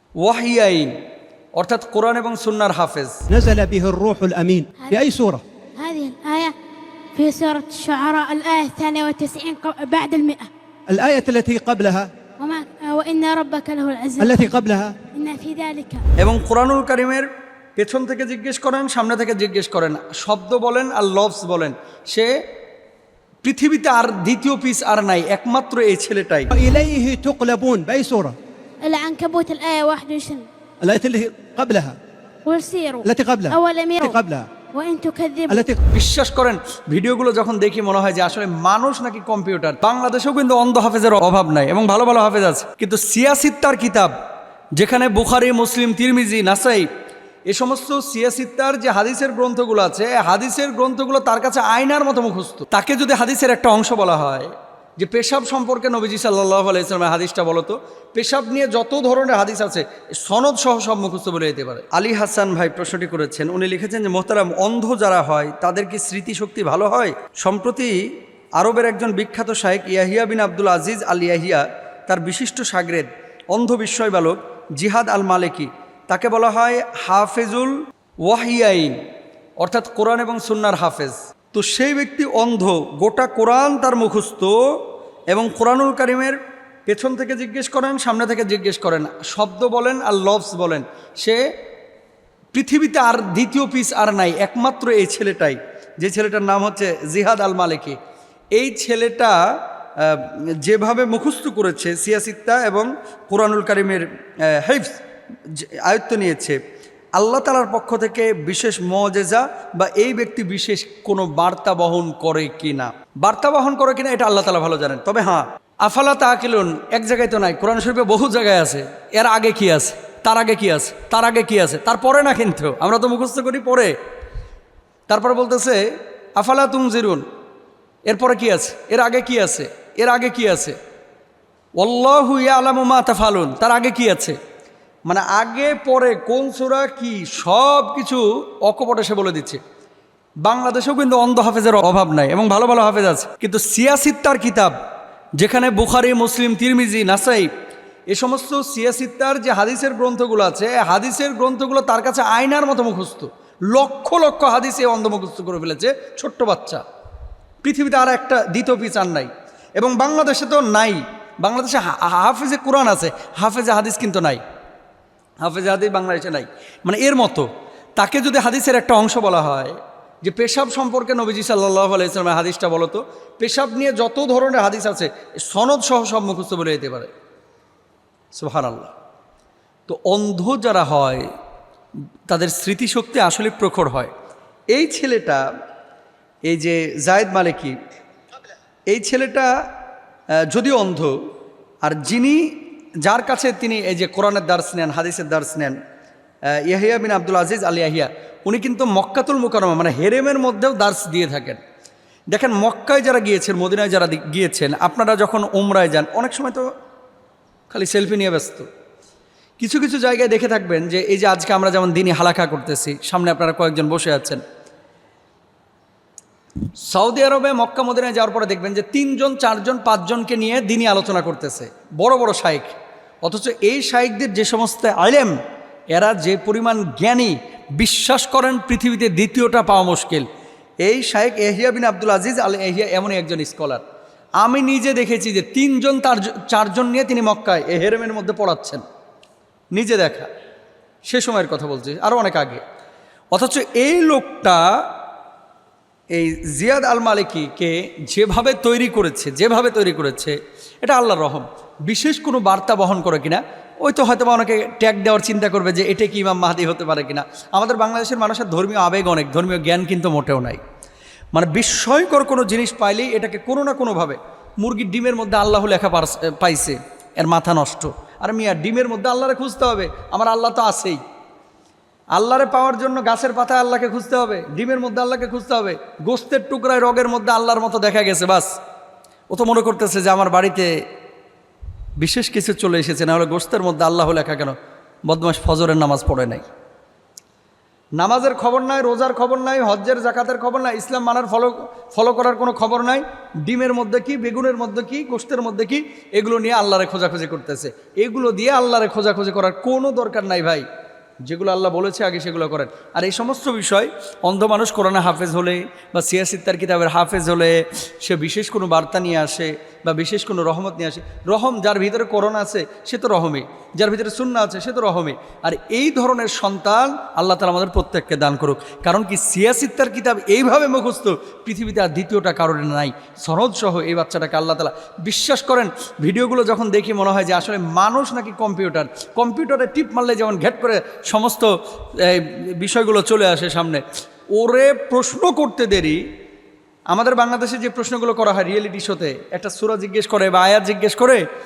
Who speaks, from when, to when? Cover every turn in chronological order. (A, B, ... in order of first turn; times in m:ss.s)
0:00.2-0:00.9 A
0:01.6-0:03.2 A
0:03.3-0:05.4 B
0:05.8-0:06.5 C
0:07.1-0:10.5 C
0:10.9-0:12.1 B
0:12.4-0:14.5 C
0:14.2-0:14.9 B
0:15.1-0:16.1 C
0:16.2-0:22.3 A
0:23.4-0:26.5 A
0:26.5-0:28.3 B
0:28.8-0:30.5 C
0:30.8-0:32.0 B
0:32.4-0:34.2 C
0:33.0-0:34.4 B
0:34.7-0:35.7 C
0:35.5-0:35.8 B
0:35.9-0:44.1 A
0:44.8-0:46.9 A
0:47.5-1:08.0 A
1:08.6-1:17.7 A
1:18.2-1:18.9 A
1:19.6-1:24.6 A
1:25.3-1:31.4 A
1:32.5-1:38.0 A
1:38.6-1:39.4 A
1:40.0-1:46.6 A
1:47.2-2:03.9 A
2:05.1-2:05.8 A
2:06.4-2:07.2 A
2:08.1-2:10.8 A
2:11.8-2:14.4 A
2:15.1-2:19.6 A
2:20.4-2:24.7 A
2:25.4-2:27.5 A
2:28.1-2:36.8 A
2:37.6-2:44.4 A
2:45.4-2:57.1 A
2:58.3-2:58.9 A
2:59.9-3:01.2 A
3:02.3-3:04.1 A
3:04.7-3:05.4 A
3:06.5-3:07.7 A
3:08.9-3:09.5 A
3:10.5-3:11.1 A
3:11.8-3:12.4 A
3:13.0-3:15.8 A
3:16.6-3:21.6 A
3:22.3-3:26.6 A
3:27.7-3:28.7 A
3:29.6-3:34.4 A
3:36.8-3:45.4 A
3:45.9-3:50.3 A
3:50.8-3:53.8 A
3:54.4-3:58.8 A
3:59.7-4:00.3 A
4:01.1-4:02.6 A
4:03.3-4:04.7 A
4:06.1-4:20.6 A
4:21.3-4:31.0 A
4:32.2-4:38.5 A
4:39.3-4:40.7 A
4:42.0-4:44.5 A
4:45.0-4:46.4 A
4:48.0-5:00.6 A
5:01.2-5:33.8 A
5:34.3-5:36.0 A
5:36.9-5:41.2 A